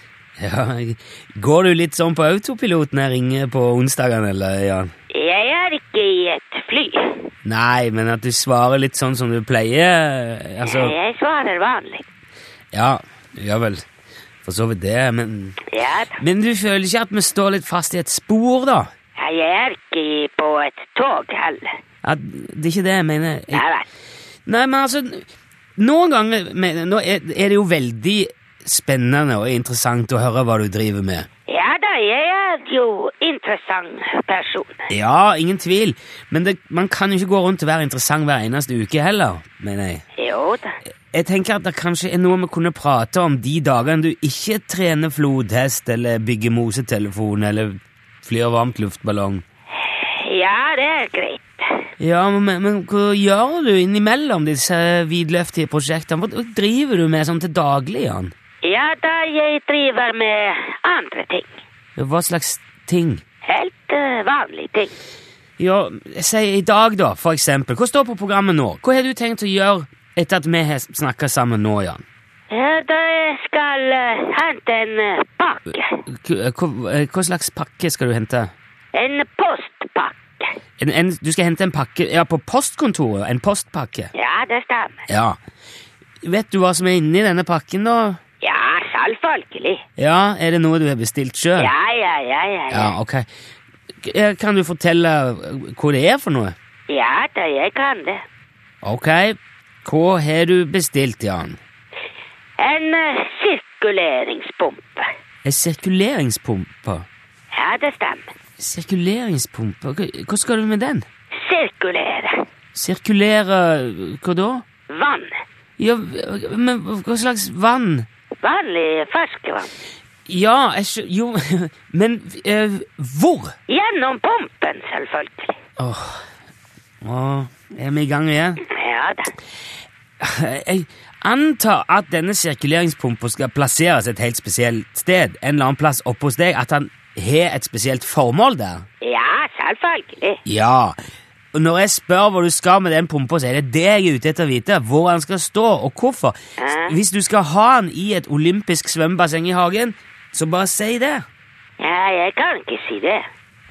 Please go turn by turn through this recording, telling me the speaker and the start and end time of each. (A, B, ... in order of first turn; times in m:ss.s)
0:00.4-0:04.9 A
0:05.1-0:07.3 B
0:07.4-0:10.9 A
0:10.6-0:12.0 B
0:12.7-0:13.8 A
0:14.4-0:15.6 A
0:15.7-0:16.2 B
0:16.2-0:18.9 A
0:19.2-0:21.6 B
0:22.0-0:23.6 A
0:23.5-0:23.8 B
0:24.5-0:25.2 A
0:25.8-0:31.3 A
0:31.5-0:34.9 B
0:34.9-0:40.0 A
0:40.2-0:40.8 B
0:41.1-0:49.4 A
0:49.7-0:51.6 B
0:52.0-0:58.3 A
0:58.6-1:01.6 B
1:02.0-1:03.2 A
1:03.4-1:04.9 B
1:05.6-1:12.0 A
1:12.5-1:16.0 B
1:16.1-1:18.5 A
1:18.9-1:20.5 B
1:20.8-1:24.1 A
1:24.1-1:25.0 B
1:25.1-1:25.4 A
1:26.2-1:28.2 A
1:28.4-1:29.8 B
1:30.0-1:31.7 A
1:31.6-1:32.9 B
1:32.7-1:33.2 A
1:34.0-1:36.5 A
1:36.9-1:38.2 B
1:38.8-1:41.6 A
1:42.6-1:45.1 B
1:45.4-1:47.0 A
1:47.5-1:48.3 B
1:48.6-1:51.0 A
1:51.4-1:52.4 B
1:52.7-1:54.6 A
1:54.9-1:55.3 B
1:55.8-1:58.1 A
1:58.4-1:59.7 B
2:00.3-2:03.5 A
2:03.7-2:05.6 B
2:05.8-2:06.2 A
2:07.0-2:08.6 A
2:08.6-2:09.3 B
2:10.2-2:18.8 A
2:19.0-2:20.4 B
2:20.4-2:21.0 A
2:21.5-2:31.2 A
2:26.6-2:27.0 B
2:31.8-2:33.2 B